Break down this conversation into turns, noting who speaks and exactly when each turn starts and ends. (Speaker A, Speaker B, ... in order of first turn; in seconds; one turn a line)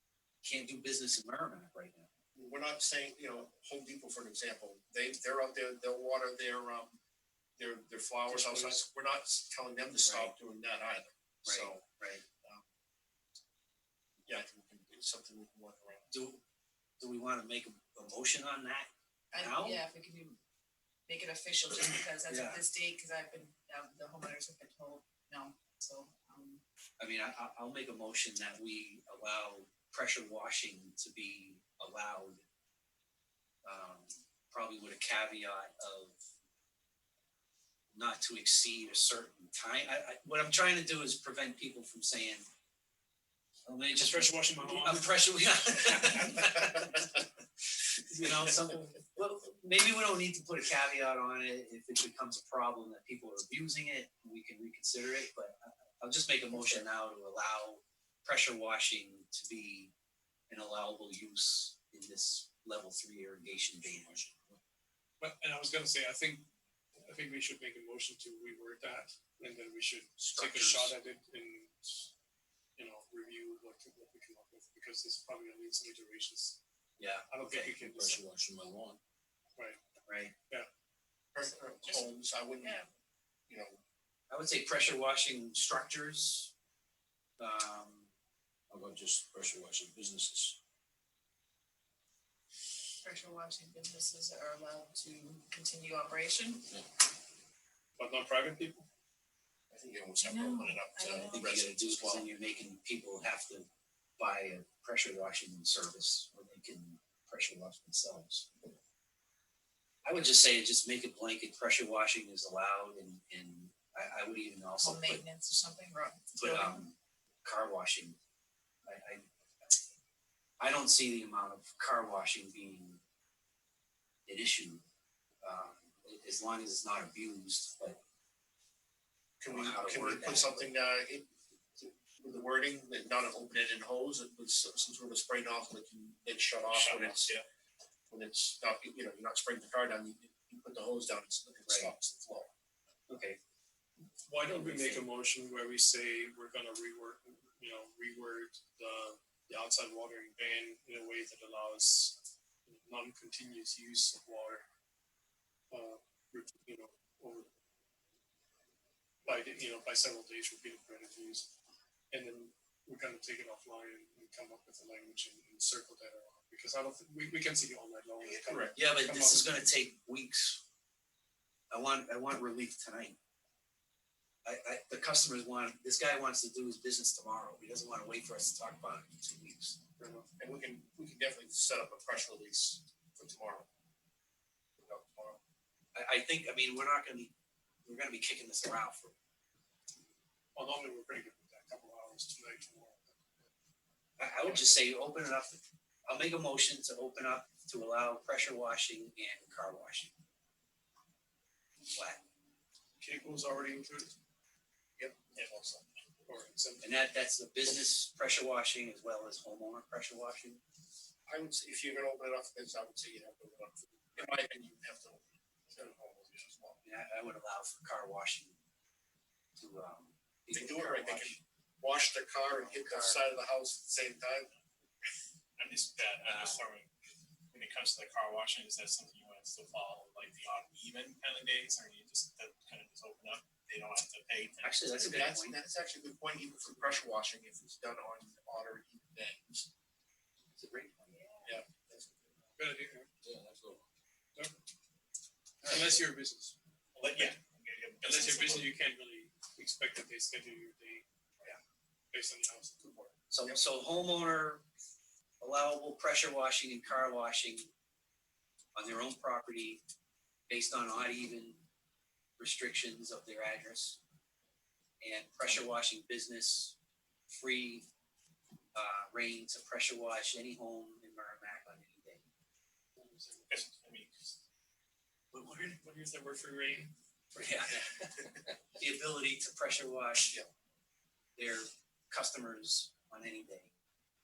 Speaker A: 0.4-2.1
Speaker B: 2.4-7.0
Speaker B: 7.6-11.8
Speaker C: 8.3-8.8
Speaker A: 10.0-10.3
Speaker A: 11.4-12.2
Speaker B: 14.2-16.1
Speaker A: 16.1-16.4
Speaker A: 17.0-19.8
Speaker D: 19.3-20.4
Speaker D: 21.1-26.6
Speaker A: 22.3-22.6
Speaker A: 27.0-32.4
Speaker A: 33.6-36.2
Speaker A: 37.9-42.5
Speaker A: 43.7-47.2
Speaker C: 44.0-45.1
Speaker A: 48.0-59.9
Speaker A: 60.5-64.2
Speaker E: 64.0-64.6
Speaker C: 65.2-66.5
Speaker C: 67.0-72.1
Speaker A: 70.2-70.9
Speaker C: 72.8-76.6
Speaker A: 77.0-77.7
Speaker C: 77.3-78.2
Speaker E: 77.5-79.0
Speaker A: 80.1-80.3
Speaker B: 81.3-82.8
Speaker D: 82.6-82.9
Speaker B: 83.5-83.8
Speaker A: 84.3-86.5
Speaker A: 87.4-88.1
Speaker E: 88.7-90.6
Speaker D: 93.0-96.7
Speaker C: 98.0-98.9
Speaker B: 99.7-102.3
Speaker D: 100.2-101.5
Speaker A: 101.3-103.7
Speaker A: 104.2-108.7
Speaker A: 110.0-115.2
Speaker D: 114.8-116.8
Speaker A: 116.3-118.2
Speaker A: 118.8-119.8
Speaker A: 120.6-123.0
Speaker A: 124.3-124.8
Speaker A: 125.4-128.0
Speaker B: 129.4-137.4
Speaker A: 129.5-130.7
Speaker F: 136.7-137.4
Speaker B: 138.1-142.5
Speaker A: 141.7-141.9
Speaker A: 143.1-143.4
Speaker C: 144.3-154.7
Speaker A: 144.5-145.1
Speaker C: 155.7-157.5
Speaker C: 159.2-161.5
Speaker C: 162.1-169.5
Speaker B: 168.2-168.8
Speaker A: 168.8-170.6
Speaker A: 171.7-173.2
Speaker A: 174.4-179.8
Speaker C: 180.0-180.3
Speaker B: 180.4-183.7
Speaker B: 184.8-185.4
Speaker A: 185.9-187.3
Speaker A: 187.8-189.2
Speaker C: 190.6-193.5
Speaker A: 194.2-200.1
Speaker C: 194.4-194.8
Speaker A: 201.9-202.2
Speaker C: 203.0-204.2
Speaker B: 205.0-205.9
Speaker C: 206.3-206.9
Speaker A: 206.8-210.6
Speaker B: 211.3-216.8
Speaker A: 216.8-218.6
Speaker A: 219.6-221.4
Speaker B: 220.5-224.5
Speaker A: 222.4-223.2
Speaker F: 225.6-226.9
Speaker A: 226.3-226.6
Speaker F: 227.5-235.1
Speaker A: 234.6-235.6
Speaker B: 234.9-239.7
Speaker A: 240.5-241.2
Speaker D: 241.1-241.5
Speaker B: 241.4-242.4
Speaker C: 242.6-243.1
Speaker E: 243.2-243.9
Speaker A: 245.6-245.9
Speaker C: 245.6-247.3
Speaker F: 247.0-248.7
Speaker C: 248.0-251.1
Speaker C: 252.1-253.1
Speaker A: 253.3-254.7
Speaker A: 255.4-257.7
Speaker A: 258.8-259.8
Speaker A: 260.5-261.6
Speaker A: 262.4-264.0
Speaker A: 265.0-266.8
Speaker A: 267.3-267.9
Speaker A: 268.7-272.2
Speaker C: 273.0-273.6
Speaker F: 273.5-274.3
Speaker C: 275.3-276.9
Speaker A: 277.4-280.4
Speaker A: 281.4-283.7